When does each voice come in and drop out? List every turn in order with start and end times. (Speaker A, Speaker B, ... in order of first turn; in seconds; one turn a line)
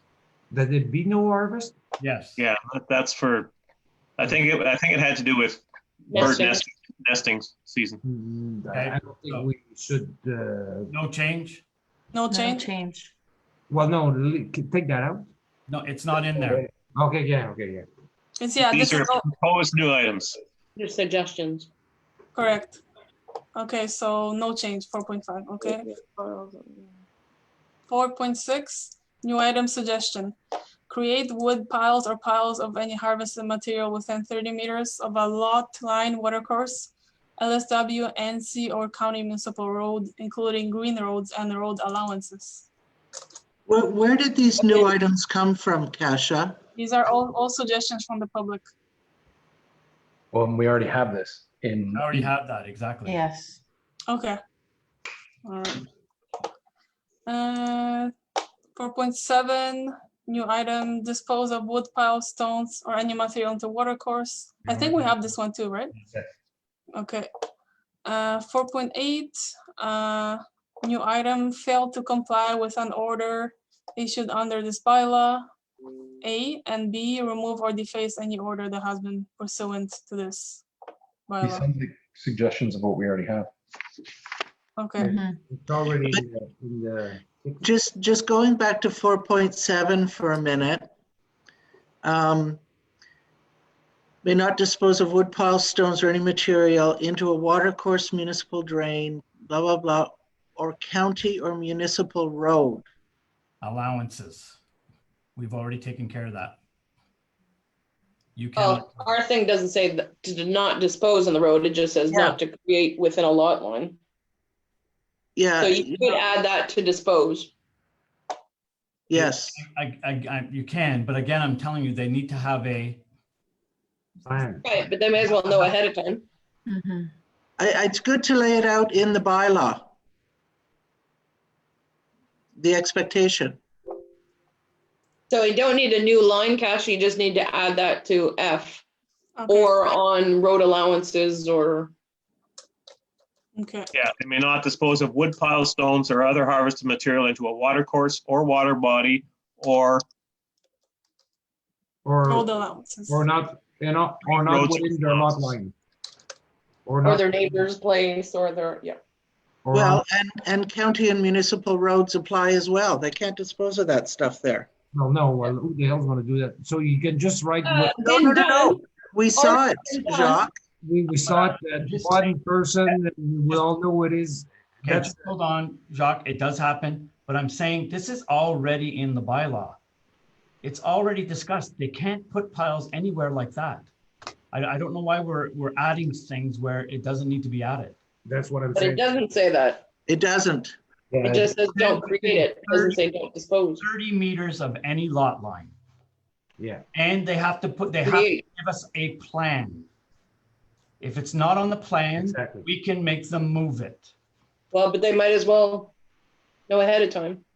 Speaker A: 0.5-1.8
Speaker B: 2.0-2.4
Speaker C: 2.4-3.5
Speaker C: 4.2-5.6
Speaker D: 6.1-6.6
Speaker C: 6.1-8.0
Speaker A: 8.0-10.9
Speaker B: 8.7-9.5
Speaker B: 10.9-11.6
Speaker E: 12.1-12.7
Speaker F: 12.3-13.1
Speaker A: 13.7-15.3
Speaker B: 15.7-16.6
Speaker A: 16.4-17.9
Speaker E: 18.4-19.3
Speaker C: 18.6-20.4
Speaker D: 20.8-21.7
Speaker E: 22.3-22.8
Speaker E: 23.6-25.9
Speaker D: 25.6-26.9
Speaker E: 27.9-30.3
Speaker E: 30.9-42.7
Speaker G: 43.7-46.6
Speaker E: 46.7-48.6
Speaker H: 50.3-52.3
Speaker B: 51.9-53.2
Speaker F: 53.0-53.6
Speaker E: 54.1-54.4
Speaker E: 55.4-55.9
Speaker E: 57.2-58.1
Speaker E: 58.8-66.0
Speaker A: 64.7-65.1
Speaker E: 67.0-67.3
Speaker E: 68.0-75.4
Speaker E: 76.2-80.6
Speaker E: 81.3-81.7
Speaker H: 81.4-83.5
Speaker E: 84.8-85.1
Speaker A: 85.0-87.7
Speaker F: 85.0-85.3
Speaker G: 87.6-90.9
Speaker G: 92.0-92.6
Speaker G: 94.2-102.9
Speaker B: 103.6-104.6
Speaker B: 105.4-106.6
Speaker B: 108.4-109.1
Speaker D: 108.6-114.0
Speaker G: 112.1-112.4
Speaker G: 115.4-116.2
Speaker D: 115.6-117.5
Speaker G: 119.1-119.6
Speaker B: 119.1-123.0
Speaker A: 124.2-124.7
Speaker D: 124.6-126.2
Speaker F: 126.7-127.1
Speaker G: 127.6-129.8
Speaker G: 132.6-133.6
Speaker D: 135.3-138.8
Speaker E: 139.3-139.8
Speaker D: 139.5-141.9
Speaker E: 143.6-143.9
Speaker C: 143.9-150.0
Speaker A: 152.0-152.5
Speaker E: 152.3-153.2
Speaker A: 153.1-155.7
Speaker C: 154.2-155.5
Speaker A: 156.8-157.7
Speaker D: 157.0-159.0
Speaker A: 159.6-160.0
Speaker G: 159.7-164.7
Speaker A: 164.9-168.1
Speaker D: 167.6-168.8
Speaker G: 168.0-170.5
Speaker D: 169.3-170.4
Speaker A: 170.8-175.3
Speaker B: 171.2-172.3
Speaker B: 174.8-179.8
Speaker B: 180.6-183.9
Speaker B: 184.5-188.0
Speaker A: 188.2-189.2
Speaker D: 188.7-189.8
Speaker G: 190.1-190.8
Speaker A: 191.1-191.5
Speaker D: 191.2-193.8
Speaker B: 191.8-193.0
Speaker B: 193.8-195.7
Speaker A: 196.6-196.8
Speaker B: 196.9-199.9
Speaker D: 198.0-198.4
Speaker B: 201.0-204.1
Speaker A: 202.2-202.7
Speaker D: 204.7-205.9
Speaker D: 206.7-207.4